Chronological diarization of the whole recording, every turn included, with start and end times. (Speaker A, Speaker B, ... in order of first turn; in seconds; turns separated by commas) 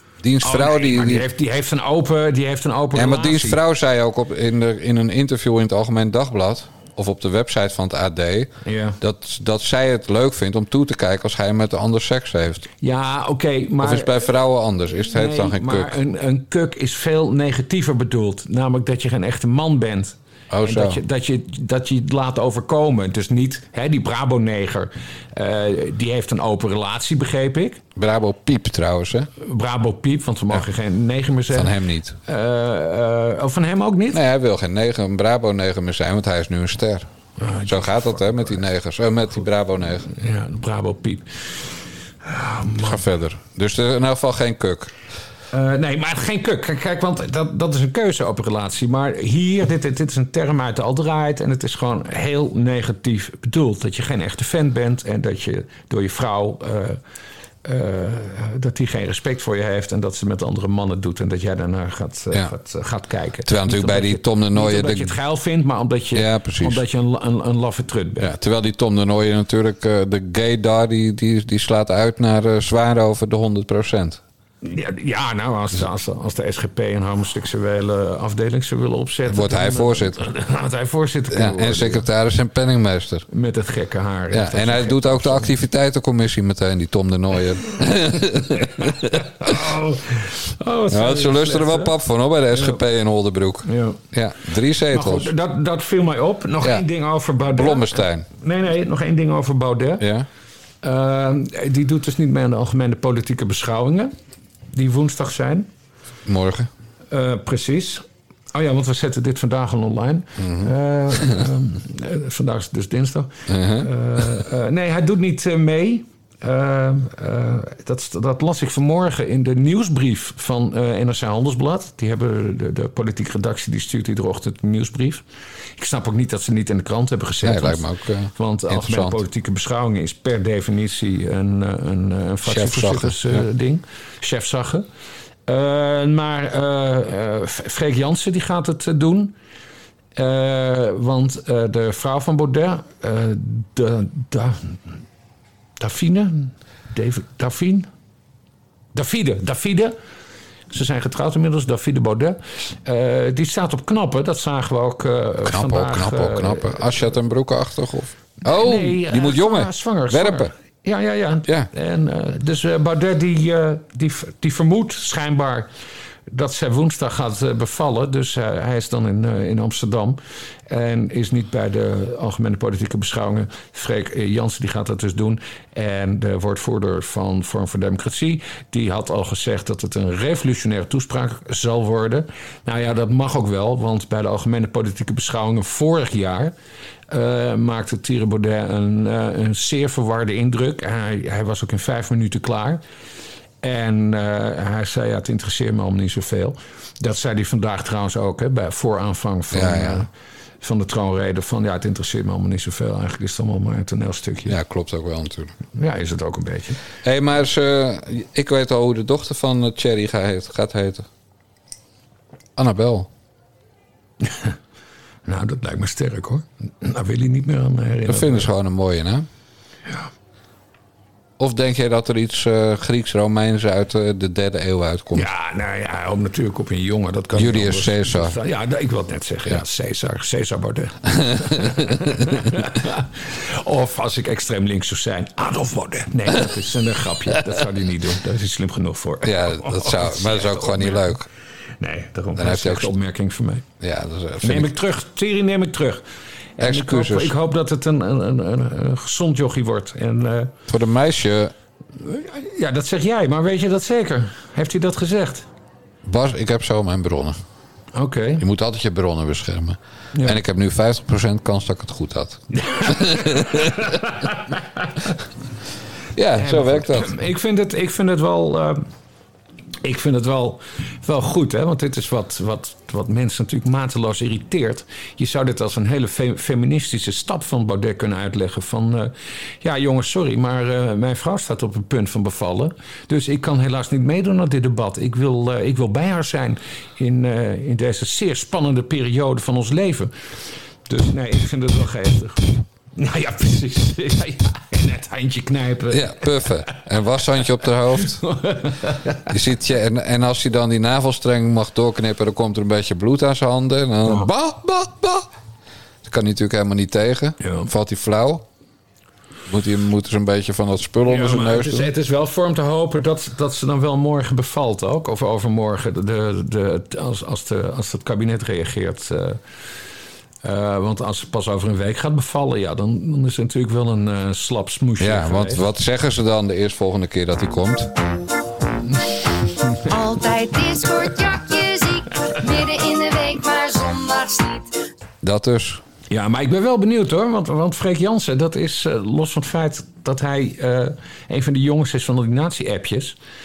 Speaker A: 0.2-1.3, Speaker B: 0.4-3.6, Speaker A: 2.9-12.7, Speaker B: 8.6-9.0, Speaker B: 12.8-14.1, Speaker A: 13.8-15.9, Speaker B: 15.1-27.8, Speaker A: 20.5-21.0, Speaker A: 27.9-29.3, Speaker B: 29.4-31.7, Speaker A: 31.5-32.2, Speaker B: 32.2-34.2, Speaker A: 34.1-37.1, Speaker B: 37.4-38.2, Speaker A: 37.6-40.1, Speaker B: 40.1-43.0, Speaker A: 42.8-44.9, Speaker B: 45.5-57.0, Speaker B: 57.6-68.3, Speaker A: 63.5-65.2, Speaker A: 66.1-66.8, Speaker A: 68.2-74.2, Speaker B: 74.6-82.1, Speaker A: 79.3-80.2, Speaker A: 81.3-83.3, Speaker B: 83.3-85.5, Speaker A: 84.3-89.5, Speaker B: 88.6-91.9, Speaker A: 90.9-95.3, Speaker B: 92.5-92.8, Speaker B: 93.6-94.0, Speaker B: 94.9-100.0, Speaker A: 97.5-98.3, Speaker A: 100.0-100.3, Speaker B: 100.8-104.2, Speaker B: 104.7-105.7, Speaker A: 106.3-106.7, Speaker B: 107.1-125.2, Speaker A: 110.4-110.7, Speaker A: 113.5-114.2, Speaker B: 125.8-134.9, Speaker A: 127.4-129.2, Speaker A: 132.5-133.4, Speaker B: 135.5-139.3, Speaker B: 140.2-144.8, Speaker B: 145.8-147.9, Speaker B: 148.9-150.0, Speaker B: 150.7-156.9, Speaker A: 155.4-160.5, Speaker B: 158.4-165.7, Speaker B: 166.3-186.5, Speaker B: 187.1-192.8, Speaker B: 193.6-200.1, Speaker A: 199.5-200.1, Speaker B: 200.6-204.6, Speaker A: 204.5-205.5, Speaker B: 205.8-206.8, Speaker A: 207.0-211.1, Speaker A: 212.6-213.1, Speaker B: 214.2-214.6, Speaker B: 215.3-218.5, Speaker A: 218.1-219.3, Speaker A: 221.4-225.3, Speaker B: 225.1-241.1, Speaker A: 227.3-228.4, Speaker A: 231.2-232.1, Speaker A: 239.2-241.3, Speaker B: 241.8-243.7, Speaker A: 242.4-242.9, Speaker A: 243.8-244.7, Speaker B: 244.4-246.0, Speaker B: 246.6-250.5, Speaker A: 246.6-247.3, Speaker A: 250.7-251.5, Speaker B: 252.0-255.5, Speaker A: 256.0-257.4, Speaker B: 257.9-258.4, Speaker A: 258.4-263.8, Speaker B: 260.1-260.4, Speaker B: 262.5-264.9, Speaker A: 266.1-267.1, Speaker B: 266.4-268.9, Speaker B: 269.8-296.9, Speaker A: 295.9-298.2, Speaker B: 298.0-299.3, Speaker A: 299.3-305.3, Speaker A: 306.0-308.4, Speaker B: 307.4-307.7, Speaker A: 309.5-311.9, Speaker B: 311.1-319.4, Speaker B: 320.4-325.6, Speaker A: 325.0-327.9, Speaker C: 329.8-334.7, Speaker A: 335.2-335.8, Speaker B: 336.1-343.2